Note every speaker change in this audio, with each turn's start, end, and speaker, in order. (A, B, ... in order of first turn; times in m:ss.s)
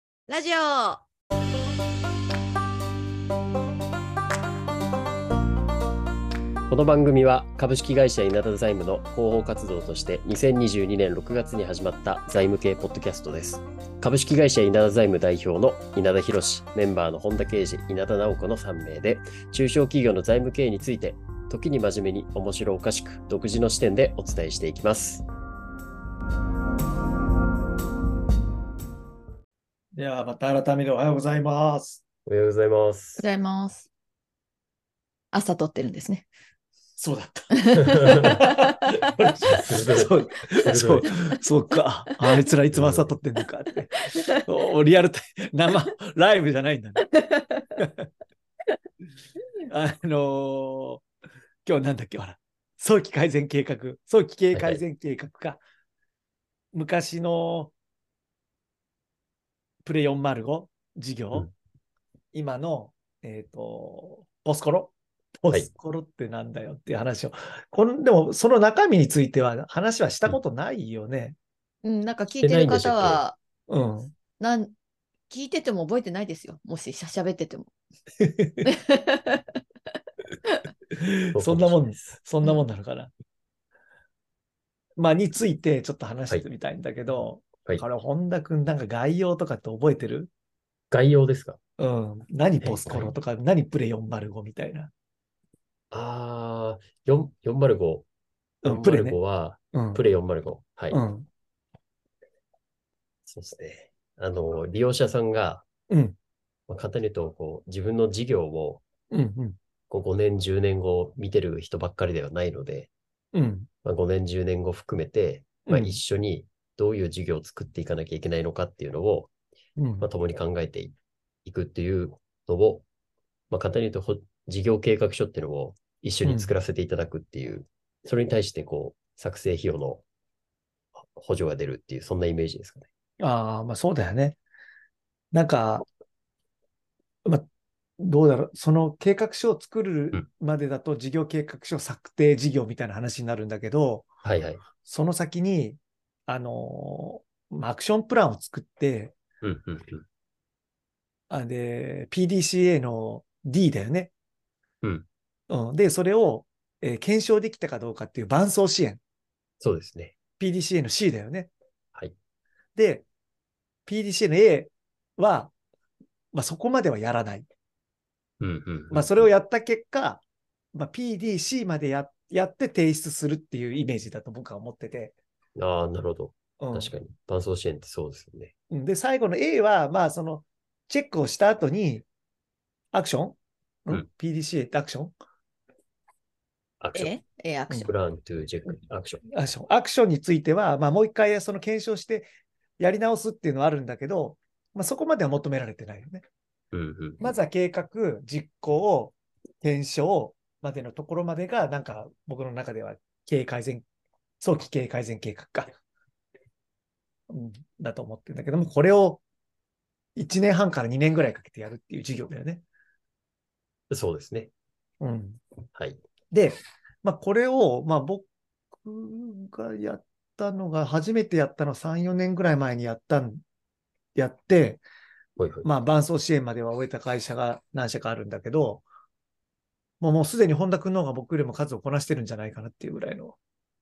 0:00.3-0:01.0 A
0:06.7-0:25.2 B
0:29.9-0:32.0 C
0:32.3-0:33.2 B
0:33.2-0:33.9 A
0:35.3-0:36.3 A
0:37.0-0:47.1 C
0:37.6-0:39.0 A
0:37.8-0:38.4 B
0:39.4-0:41.1 B
0:42.7-0:43.1 B
0:44.1-0:44.4 A
0:47.1-0:47.8 A
0:47.8-0:48.1 C
0:49.7-0:51.0 C
0:51.7-0:55.6 C
0:54.5-0:54.8 B
0:56.7-0:57.7 C
0:59.8-1:01.5 C
1:02.3-1:11.4 C
1:11.8-1:13.4 A
1:12.4-1:13.2 B
1:13.7-1:14.1 C
1:14.4-1:14.7 A
1:15.3-1:17.7 A
1:18.2-1:18.7 C
1:18.6-1:19.4 A
1:20.9-1:23.1 C
1:21.3-1:22.1 B
1:25.0-1:30.3 C
1:30.9-1:31.6 B
1:31.8-1:34.9 C
1:32.6-1:33.1 B
1:35.9-1:38.0 B
1:38.6-1:39.2 C
1:38.6-1:41.0 B
1:39.7-1:40.0 C
1:40.9-1:41.3 C
1:43.2-1:45.7 B
1:45.9-1:46.2 C
1:46.7-1:48.8 B
1:49.1-1:49.6 C
1:49.9-1:52.9 B
1:53.3-1:53.7 C
1:53.8-1:59.3 B
1:55.6-1:56.0 C
1:59.8-2:00.1 C
2:00.0-2:02.8 B
2:03.5-2:10.0 B
2:06.2-2:06.5 C
2:11.0-2:12.9 B
2:13.2-2:14.4 C
2:15.3-2:15.9 C
2:18.0-2:24.1 C
2:24.2-2:24.6 B
2:24.8-2:29.2 C
2:29.4-2:30.1 B
2:31.3-2:34.1 C
2:35.5-2:39.0 C
2:39.6-2:40.2 B
2:40.4-2:41.5 C
2:42.8-2:43.1 C
2:43.9-2:45.5 C
2:46.3-2:47.5 C
2:48.4-2:49.3 B
2:48.9-2:50.2 C
2:50.7-2:55.2 C
2:55.6-2:58.5 B
2:56.6-2:56.9 C
2:58.7-3:02.1 C
3:02.9-3:05.1 C
3:06.8-3:07.1 B
3:06.9-3:07.9 A
3:07.7-3:09.2 B
3:09.3-3:12.3 C
3:12.8-3:16.2 C
3:16.7-3:17.3 B
3:17.2-3:23.8 C
3:24.4-3:25.8 C
3:27.3-3:29.2 C
3:30.2-3:32.6 C
3:33.9-3:34.5 B
3:35.0-3:35.4 C
3:35.8-3:36.0 B
3:36.3-3:38.2 C
3:38.8-3:43.4 C
3:44.2-3:44.8 C
3:45.4-3:45.7 B
3:45.6-3:48.8 C
3:50.0-3:53.4 C